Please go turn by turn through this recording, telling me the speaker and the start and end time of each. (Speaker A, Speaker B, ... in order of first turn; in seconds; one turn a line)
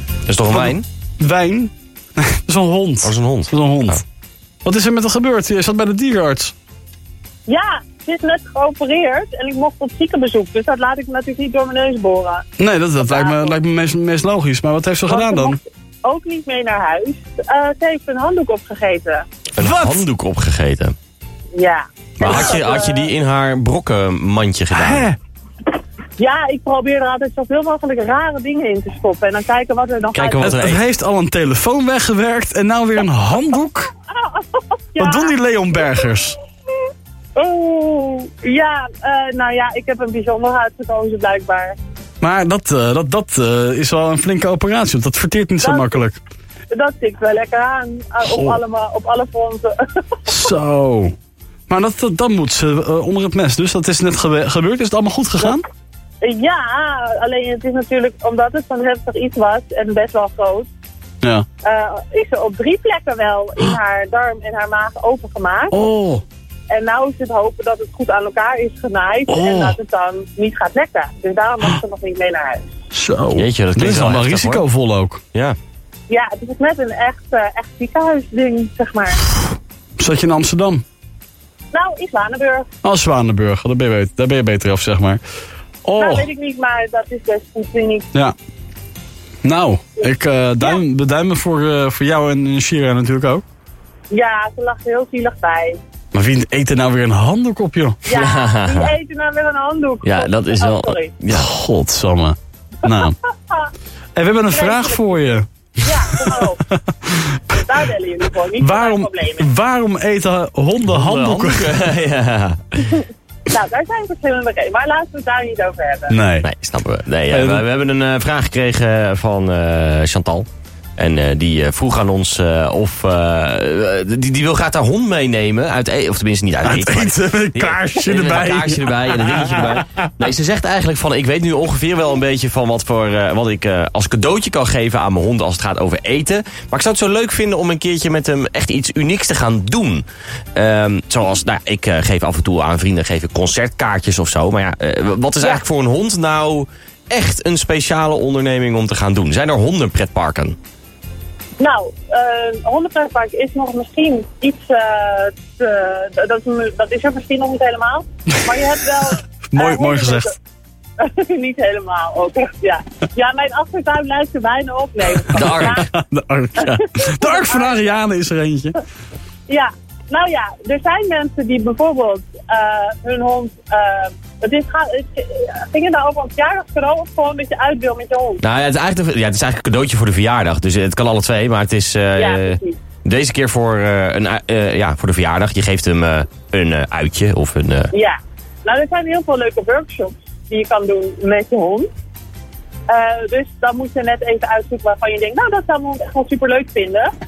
Speaker A: 0.3-0.8
Speaker B: 0.5-4.0
Speaker A: 3.0-4.0
Speaker B: 4.6-6.5
Speaker C: 7.5-12.4
Speaker B: 12.6-15.6
Speaker C: 13.0-13.6
Speaker C: 15.1-19.2
Speaker A: 19.6-20.9
Speaker B: 19.6-20.0
Speaker C: 21.6-23.1
Speaker A: 22.2-25.1
Speaker B: 24.7-25.2
Speaker C: 26.2-30.6
Speaker A: 30.1-30.8
Speaker B: 30.4-33.9
Speaker C: 34.1-35.3
Speaker B: 35.0-36.4
Speaker C: 37.4-41.8
Speaker B: 42.2-46.2
Speaker C: 45.6-46.0
Speaker C: 46.7-49.7
Speaker B: 48.2-48.6
Speaker B: 50.3-51.1
Speaker B: 51.7-55.6
Speaker C: 56.2-60.7
Speaker C: 61.6-65.8
Speaker B: 65.7-66.2
Speaker C: 66.7-72.7
Speaker B: 69.3-69.8
Speaker B: 72.9-75.2
Speaker A: 73.3-74.6
Speaker C: 76.1-79.2
Speaker B: 80.0-80.8
Speaker C: 81.7-82.7
Speaker B: 82.8-85.2
Speaker B: 85.8-86.2
Speaker C: 86.0-88.1
Speaker B: 89.4-93.4
Speaker C: 94.1-95.8
Speaker B: 96.1-98.0
Speaker C: 98.0-101.1
Speaker A: 98.1-98.9
Speaker A: 100.0-101.5
Speaker B: 101.3-103.2
Speaker C: 102.8-103.7
Speaker B: 104.2-105.5
Speaker C: 104.5-106.7
Speaker B: 106.1-107.4
Speaker C: 107.5-109.5
Speaker B: 108.6-111.8
Speaker A: 110.9-112.9
Speaker C: 113.5-116.2
Speaker B: 116.1-116.5
Speaker A: 116.4-120.5
Speaker B: 117.3-117.6
Speaker A: 121.0-140.0
Speaker B: 126.6-129.8
Speaker A: 140.5-150.6
Speaker C: 151.6-160.3
Speaker B: 159.5-160.3
Speaker C: 161.0-165.8
Speaker A: 165.3-165.8
Speaker B: 165.6-168.8
Speaker C: 166.6-168.0
Speaker C: 169.5-178.4
Speaker A: 178.4-187.9
Speaker C: 182.2-182.8
Speaker C: 187.9-191.9
Speaker C: 192.9-197.1